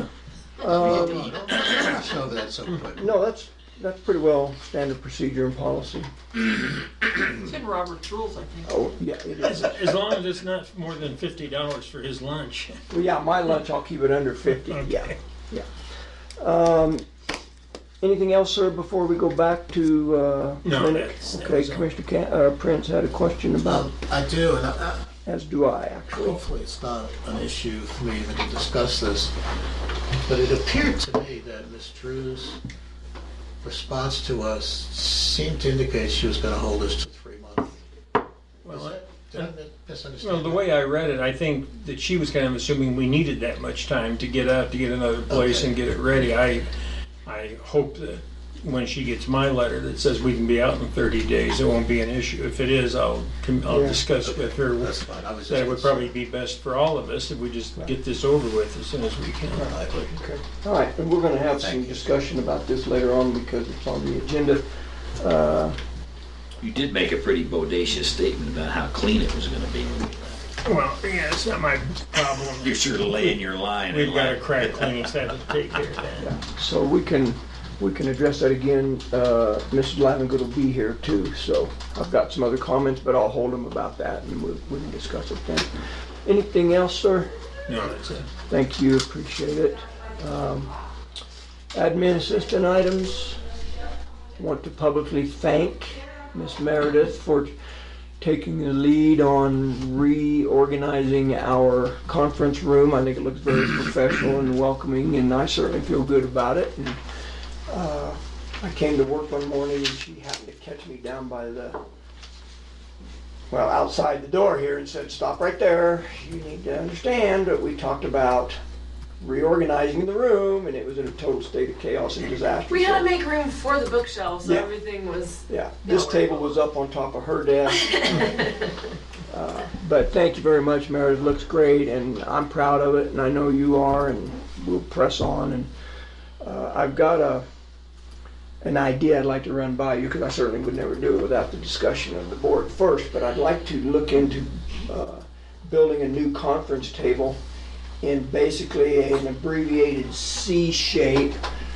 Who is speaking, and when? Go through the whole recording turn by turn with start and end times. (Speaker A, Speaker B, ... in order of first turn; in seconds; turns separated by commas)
Speaker A: 0.6-1.4, Speaker B: 0.7-3.1, Speaker A: 3.0-6.1, Speaker C: 7.3-8.9, Speaker A: 8.7-10.0, Speaker D: 9.4-12.8, Speaker A: 12.9-15.7, Speaker D: 14.7-15.1, Speaker A: 16.4-17.0, Speaker A: 18.0-23.9, Speaker D: 20.6-21.9, Speaker B: 23.6-25.0, Speaker A: 25.2-26.4, Speaker B: 26.1-29.3, Speaker B: 30.2-32.6, Speaker B: 33.6-37.8, Speaker B: 38.6-40.7, Speaker D: 38.6-39.5, Speaker D: 40.2-46.7, Speaker B: 45.3-46.2, Speaker D: 47.2-59.7, Speaker A: 53.7-54.0, Speaker B: 54.2-56.1, Speaker B: 59.5-60.4, Speaker A: 60.5-64.6, Speaker B: 61.6-62.1, Speaker A: 65.2-65.8, Speaker E: 66.6-70.4, Speaker D: 70.6-73.3, Speaker E: 72.6-74.7, Speaker D: 73.9-76.3, Speaker A: 76.2-85.7, Speaker A: 86.2-87.3, Speaker D: 87.7-88.3, Speaker A: 88.5-90.7, Speaker A: 91.7-93.4, Speaker A: 94.4-97.5, Speaker A: 98.2-107.0, Speaker A: 107.7-111.8, Speaker A: 113.5-118.6, Speaker A: 119.2-123.1, Speaker C: 122.7-126.5, Speaker A: 124.4-124.7, Speaker A: 125.5-128.5, Speaker C: 128.2-128.5, Speaker A: 129.3-135.7, Speaker A: 136.4-137.4, Speaker A: 138.6-147.4, Speaker A: 148.0-151.4